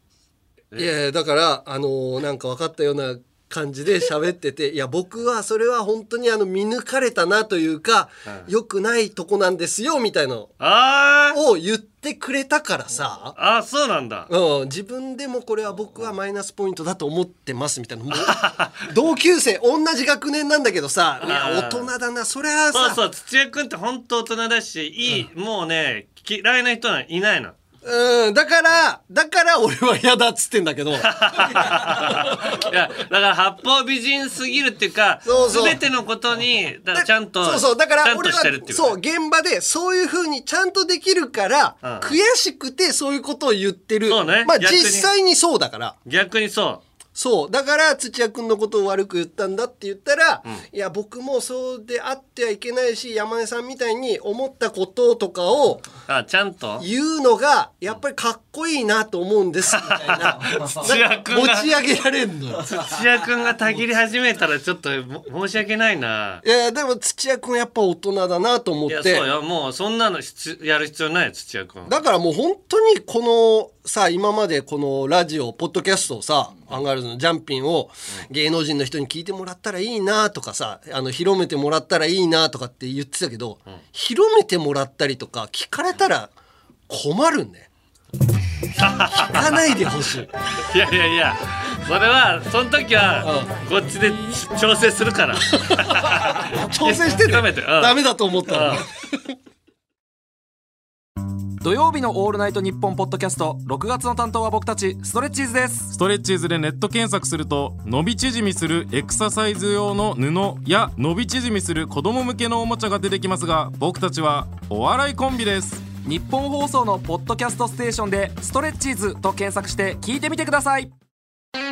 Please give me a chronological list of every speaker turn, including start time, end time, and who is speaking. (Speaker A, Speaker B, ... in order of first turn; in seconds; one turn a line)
Speaker A: 0.8-10.5
Speaker B: 10.6-11.4
Speaker A: 11.3-13.3
Speaker B: 13.3-14.3
Speaker A: 14.3-23.0
Speaker B: 18.1-18.8
Speaker B: 21.2-21.9
Speaker B: 22.7-27.5
Speaker A: 27.8-32.7
Speaker B: 31.0-39.0
Speaker A: 35.2-35.8
Speaker A: 36.9-46.0
Speaker B: 41.8-42.2
Speaker B: 44.1-45.1
Speaker B: 46.0-46.8
Speaker A: 47.1-55.9
Speaker B: 56.1-56.9
Speaker A: 56.8-62.8
Speaker B: 59.8-61.7
Speaker B: 62.6-66.4
Speaker A: 66.4-69.2
Speaker B: 68.9-71.9
Speaker A: 71.8-86.3
Speaker A: 86.9-87.7
Speaker B: 88.8-89.6
Speaker A: 89.1-90.3
Speaker B: 90.5-98.8
Speaker A: 93.2-93.5
Speaker A: 95.6-99.2
Speaker C: 101.6-105.9
Speaker D: 105.9-115.9
Speaker C: 116.0-120.9